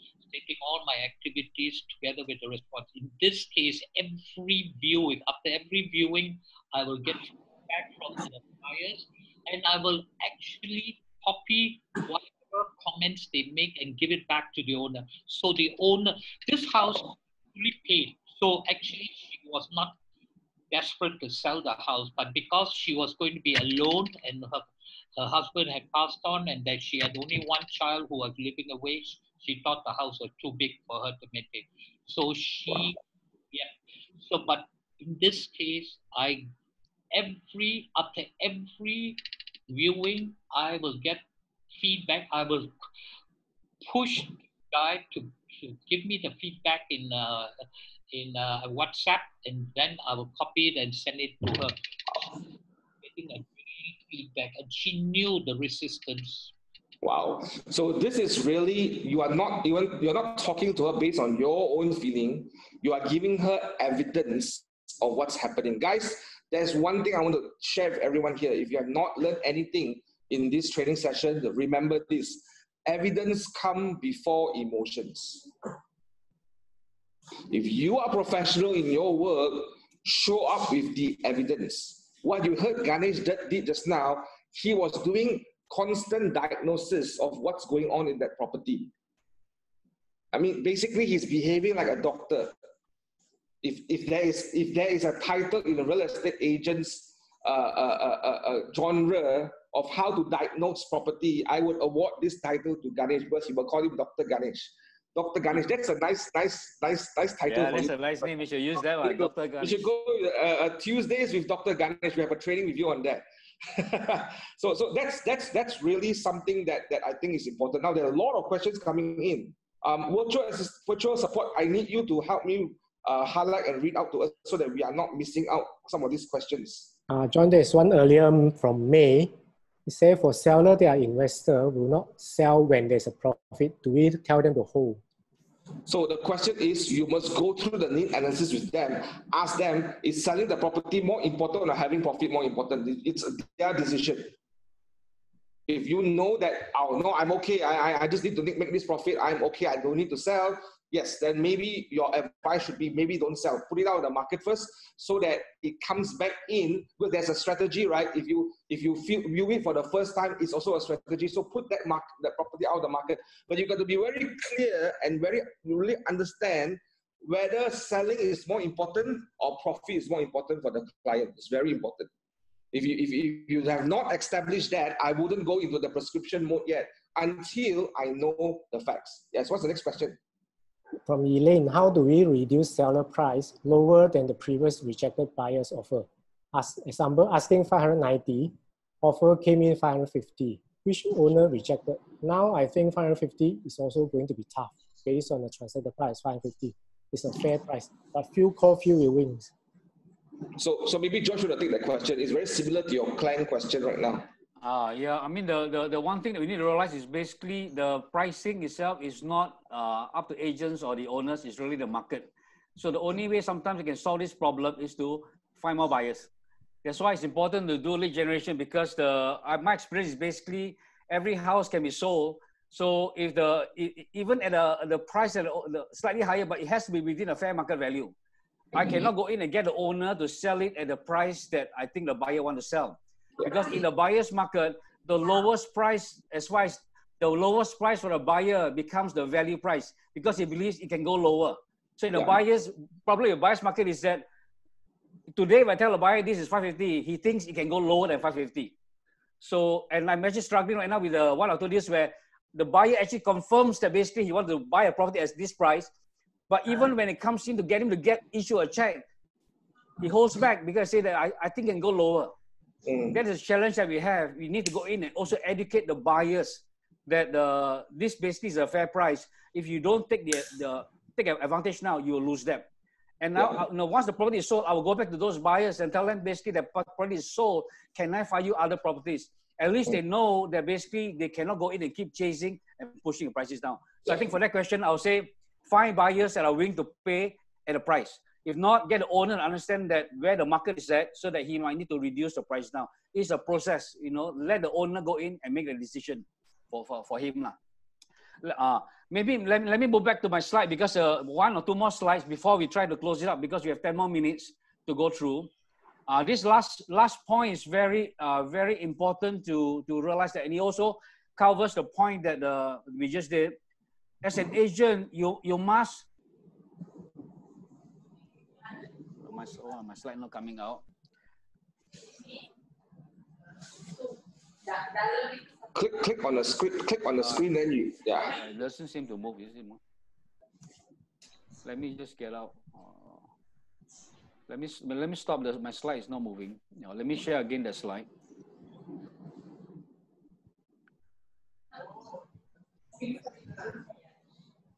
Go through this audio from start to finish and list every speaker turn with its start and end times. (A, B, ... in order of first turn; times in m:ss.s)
0:00.3-0:20.0 A
0:20.7-0:33.0 A
0:33.5-0:36.5 A
0:37.1-0:42.7 A
0:43.8-0:47.5 A
0:48.1-0:52.4 A
0:53.0-0:56.5 A
0:57.0-1:15.5 B
1:17.5-1:28.9 B
1:30.3-1:32.6 B
1:33.6-1:48.2 B
1:47.5-1:49.9 C
1:49.0-2:06.9 B
2:07.1-2:09.3 D
2:09.8-2:15.0 D
2:15.8-2:24.3 B
2:25.7-2:52.1 B
2:52.7-3:00.2 B
3:01.0-3:19.5 D
3:20.6-3:24.2 B
3:24.6-3:36.3 C
3:36.8-3:48.1 C
3:48.7-4:04.2 C
4:05.3-4:08.7 C
4:09.4-4:15.9 C
4:16.5-4:19.0 C
4:20.0-4:22.3 C
4:22.9-4:23.1 B
4:23.1-4:32.7 C
4:33.2-4:57.5 C
4:58.4-5:05.5 C
5:06.1-5:13.6 C
5:14.2-5:16.0 C
5:19.2-5:20.8 C
5:25.7-5:28.3 B
5:28.3-5:29.8 C
5:31.6-5:33.2 C
5:34.5-5:38.1 C